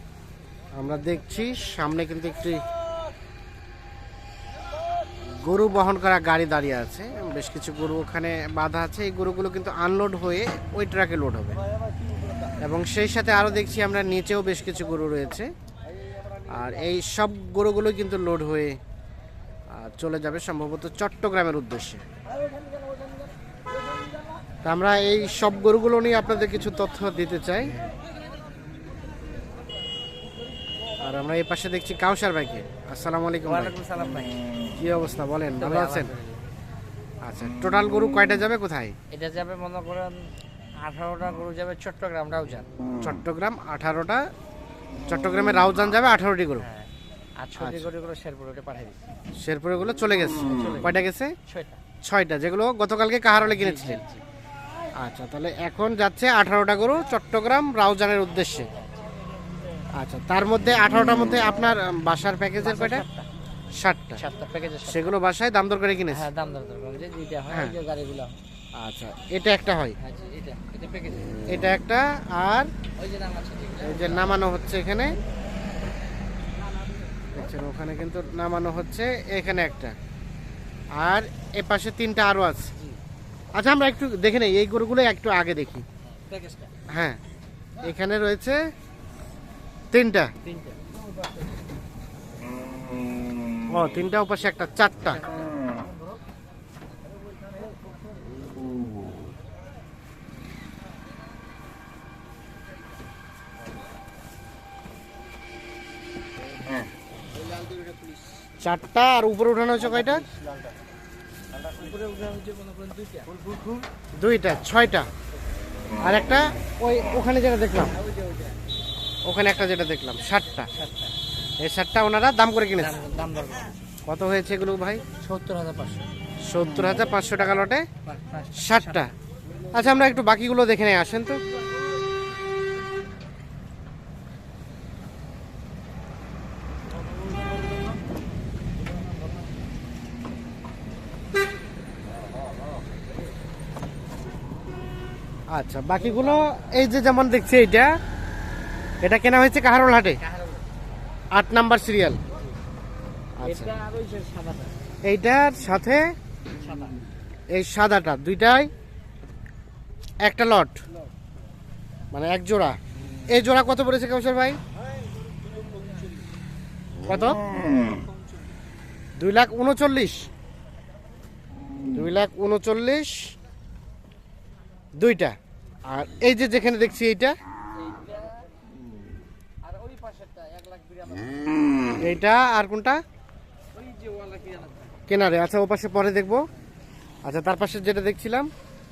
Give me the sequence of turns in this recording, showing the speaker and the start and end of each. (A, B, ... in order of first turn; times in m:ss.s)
0:00.8-0:02.6 A
0:05.4-0:11.6 A
0:12.6-0:15.5 A
0:16.5-0:18.8 A
0:19.7-0:22.0 A
0:24.6-0:27.7 A
0:31.0-0:33.7 A
0:33.4-0:34.4 B
0:34.8-0:36.1 A
0:35.6-0:36.4 B
0:37.2-0:38.9 A
0:39.1-0:42.7 B
0:43.0-0:44.2 A
0:45.0-0:46.6 A
0:46.6-0:49.0 B
0:47.6-0:47.9 A
0:49.4-0:51.3 A
0:50.4-0:50.9 B
0:51.4-0:51.8 B
0:52.0-0:54.0 A
0:53.4-0:54.2 B
0:55.0-0:58.7 A
0:58.7-0:58.9 B
0:59.9-1:03.0 A
1:02.6-1:03.3 B
1:03.8-1:04.2 A
1:04.2-1:05.1 B
1:04.8-1:06.3 A
1:06.1-1:08.4 B
1:07.5-1:07.8 A
1:08.8-1:10.0 A
1:10.0-1:11.4 B
1:11.5-1:12.7 A
1:13.0-1:14.4 B
1:13.8-1:15.2 A
1:17.3-1:19.9 A
1:21.0-1:22.7 A
1:23.5-1:25.8 A
1:26.2-1:26.7 B
1:26.9-1:27.2 A
1:27.8-1:28.6 A
1:29.9-1:30.3 A
1:30.4-1:30.8 B
1:33.7-1:35.2 A
1:35.0-1:35.6 B
1:48.6-1:50.2 A
1:51.6-1:53.8 B
1:54.2-1:55.1 A
1:56.0-1:57.9 A
1:58.0-1:58.6 B
1:59.2-2:00.7 A
2:00.7-2:01.2 B
2:01.6-2:03.0 A
2:02.8-2:03.8 B
2:04.0-2:05.0 A
2:05.2-2:06.1 B
2:06.4-2:07.8 A
2:08.0-2:09.1 B
2:08.5-2:09.1 A
2:09.7-2:11.4 A
2:25.5-2:28.0 A
2:29.0-2:30.2 A
2:30.2-2:30.7 B
2:31.3-2:32.2 A
2:33.4-2:33.7 A
2:33.4-2:34.7 B
2:35.0-2:36.1 A
2:36.5-2:37.0 B
2:37.5-2:38.7 A
2:40.2-2:40.8 A
2:42.1-2:42.8 A
2:43.3-2:44.6 A
2:47.0-2:47.4 A
2:49.2-2:50.3 A
2:51.9-2:53.3 A
2:55.0-2:57.3 A
2:57.7-2:58.5 B
2:59.6-3:01.6 B
3:02.0-3:03.0 A
3:03.7-3:05.0 B
3:05.1-3:06.5 A
3:07.2-3:08.5 A